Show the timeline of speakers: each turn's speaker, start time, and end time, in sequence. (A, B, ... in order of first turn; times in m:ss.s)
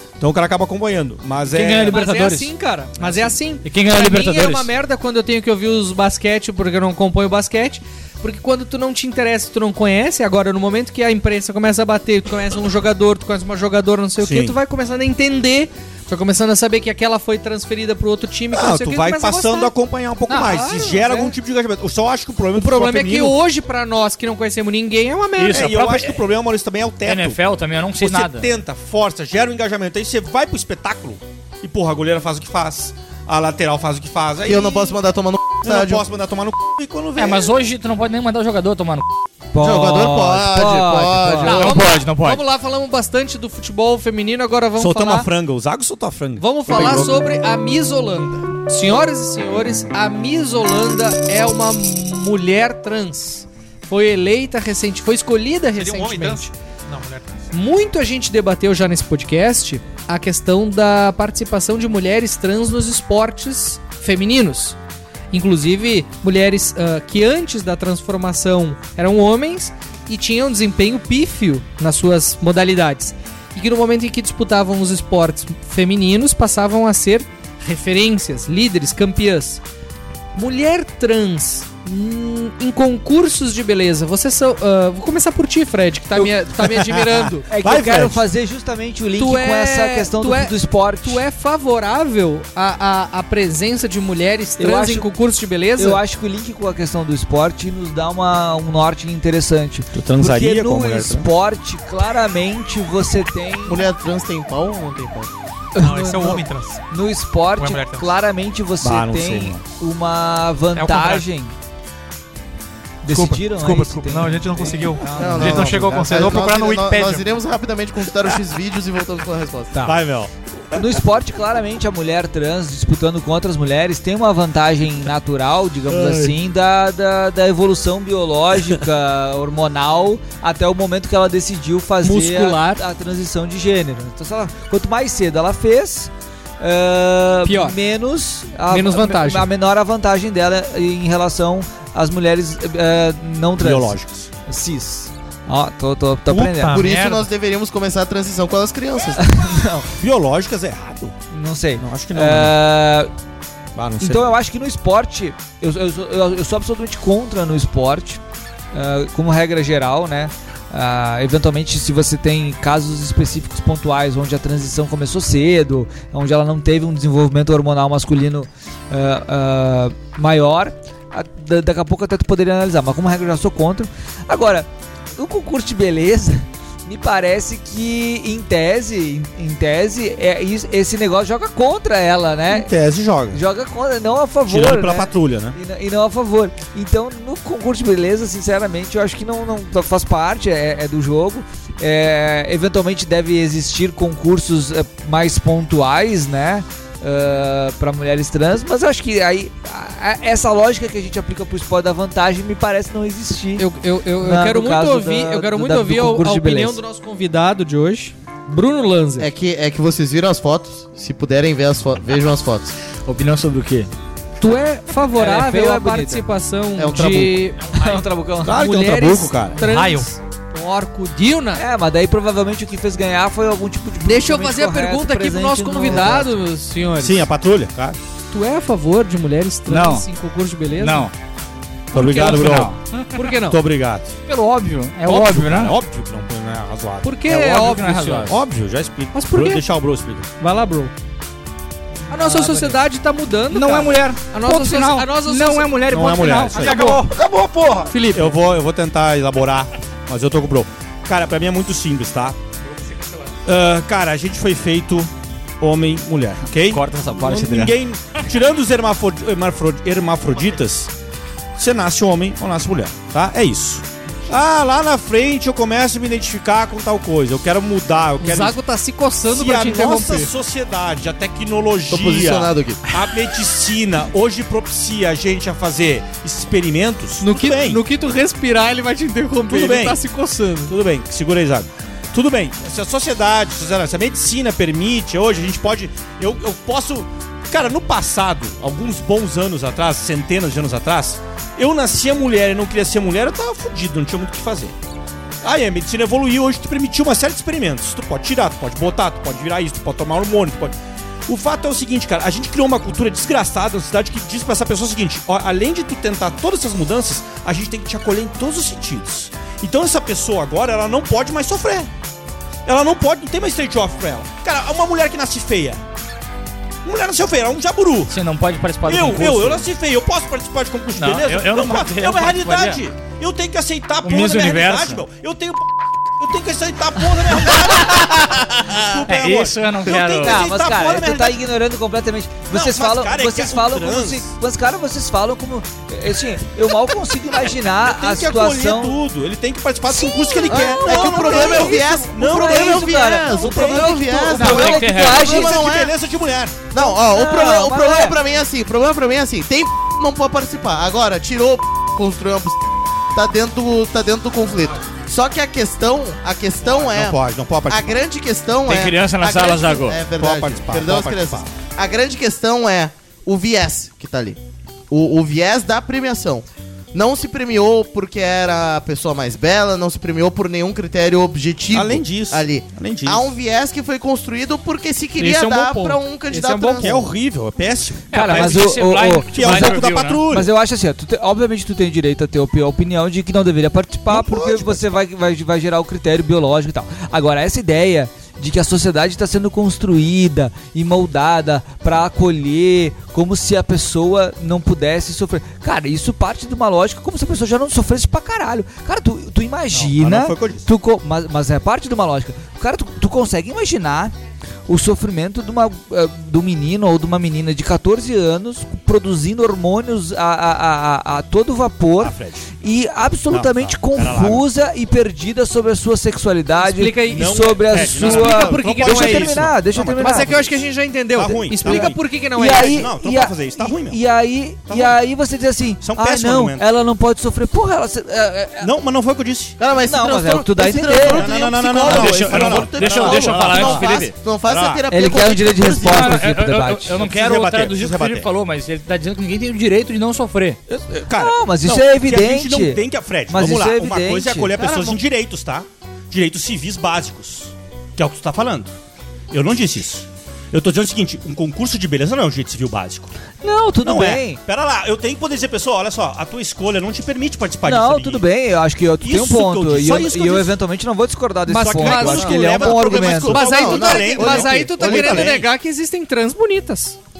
0:00.2-0:02.0 A
0:01.5-0:02.5 B
0:01.9-0:19.7 C
0:03.0-0:03.3 A
0:03.6-0:04.7 B
0:14.2-0:14.6 A
0:18.5-0:23.4 A
0:20.3-0:20.5 B
0:20.3-0:21.3 C
0:22.6-0:25.8 C
0:25.4-0:26.2 B
0:25.5-0:27.4 A
0:27.0-0:28.5 B
0:28.0-0:35.0 A
0:34.5-0:36.0 D
0:35.6-0:37.5 A
0:37.2-0:39.1 B
0:39.5-0:41.7 E
0:39.6-0:41.8 D
0:41.4-0:45.3 C
0:41.5-0:42.4 B
0:44.8-0:47.1 A
0:46.4-0:56.5 C
0:46.7-0:47.1 D
0:55.7-0:57.4 F
0:57.5-1:04.8 C
1:05.3-1:19.6 C
1:20.4-1:27.5 C
1:26.2-1:28.2 A
1:27.5-1:31.2 E
1:29.2-1:36.0 C
1:34.6-1:35.1 E
1:35.8-1:43.8 E
1:39.9-1:41.3 A
1:43.7-1:45.3 D
1:45.8-1:46.8 F
1:45.8-1:46.4 E
1:46.9-1:51.5 E
1:47.6-1:48.1 F
1:48.8-1:49.6 A
1:50.7-1:51.3 F
1:53.0-1:55.9 E
1:53.1-1:57.3 F
1:55.1-1:59.9 D
1:59.8-2:00.8 A
2:00.7-2:26.8 E
2:05.9-2:06.4 A
2:12.0-2:12.8 C
2:17.4-2:17.8 C
2:18.7-2:19.5 C
2:23.6-2:24.3 A
2:26.3-2:27.3 F
2:26.7-2:29.2 D
2:29.2-2:30.0 E
2:30.0-2:31.2 A
2:31.3-2:33.1 E
2:31.8-2:32.6 A
2:33.8-2:34.3 A
2:34.0-2:38.2 E
2:38.7-3:02.7 E
3:02.5-3:03.4 A
3:03.3-3:23.6 E
3:04.4-3:05.6 A
3:23.6-3:29.3 C
3:24.2-3:26.8 E
3:29.2-3:32.8 D
3:33.1-3:33.9 B
3:34.4-3:37.7 C
3:35.2-3:36.2 E
3:36.8-3:37.4 D
3:37.7-3:38.6 E
3:38.4-3:39.6 A
3:38.5-3:41.6 C
3:39.6-3:40.1 F
3:41.6-3:46.3 E
3:44.0-3:47.3 C
3:47.0-3:48.0 A
3:48.3-3:51.1 C
3:49.7-3:50.1 B
3:50.8-3:51.1 B
3:51.9-3:52.8 A
3:52.0-3:52.6 C
3:52.0-3:52.8 B
3:53.1-3:53.6 C
3:53.4-3:54.2 A
3:54.3-3:55.8 B
3:55.0-3:57.4 A
3:57.0-3:58.3 C
3:57.3-3:58.4 B
3:58.3-4:00.3 A
3:59.1-3:59.6 C
4:00.4-4:00.9 C
4:02.1-4:05.9 C
4:02.1-4:02.8 B
4:03.5-4:07.9 B
4:05.9-4:07.4 A
4:07.9-4:08.4 C
4:08.1-4:12.4 A
4:13.4-4:20.9 A
4:16.7-4:17.8 B
4:21.6-4:28.6 A
4:28.2-4:30.3 C
4:29.3-4:37.8 A
4:31.9-4:32.8 D
4:37.2-4:40.7 C
4:39.5-4:40.0 A
4:40.7-4:54.8 A
4:55.4-5:00.8 A
5:01.3-5:11.9 A
5:12.7-5:15.8 A
5:16.8-5:18.1 A
5:18.1-5:19.7 B
5:18.9-5:31.4 A
5:21.0-5:22.8 B
5:24.0-5:25.0 B
5:29.1-5:30.5 B
5:30.2-5:39.0 E
5:32.5-5:34.3 A
5:37.8-5:46.7 A
5:40.5-5:45.6 E
5:40.5-5:45.9 D
5:44.4-5:45.3 B
5:46.7-5:57.2 D
5:46.8-5:48.2 E
5:56.7-5:57.9 A
5:57.7-6:04.4 D
5:58.7-6:00.0 B
6:00.2-6:01.5 A
6:04.9-6:17.1 D
6:11.7-6:13.2 A
6:15.2-6:15.9 B
6:15.3-6:17.0 C
6:16.8-6:20.5 A
6:18.1-6:20.2 B
6:18.2-6:44.1 E
6:24.1-6:24.9 A
6:39.7-6:40.7 A
6:44.7-7:00.3 E
6:52.0-6:52.5 A
6:53.3-6:54.4 A
6:56.6-7:02.8 C
6:57.1-7:00.6 A
7:01.1-7:04.0 A
7:01.6-7:08.7 E
7:04.7-7:05.0 A
7:05.8-7:06.6 A
7:08.6-7:09.6 A
7:09.6-7:16.3 D
7:09.8-7:11.4 E
7:10.9-7:14.9 A
7:11.8-7:14.1 B
7:14.9-7:17.0 E
7:15.8-7:20.6 B
7:17.0-7:18.3 A
7:20.7-7:28.7 A
7:21.1-7:24.6 E
7:24.6-7:24.9 D
7:29.3-7:33.1 A
7:33.4-7:34.4 E
7:33.8-7:38.2 A
7:37.6-7:43.4 E
7:39.0-7:40.6 A
7:41.5-7:42.5 C
7:41.6-7:45.5 A
7:42.2-7:45.4 D
7:43.3-7:47.0 C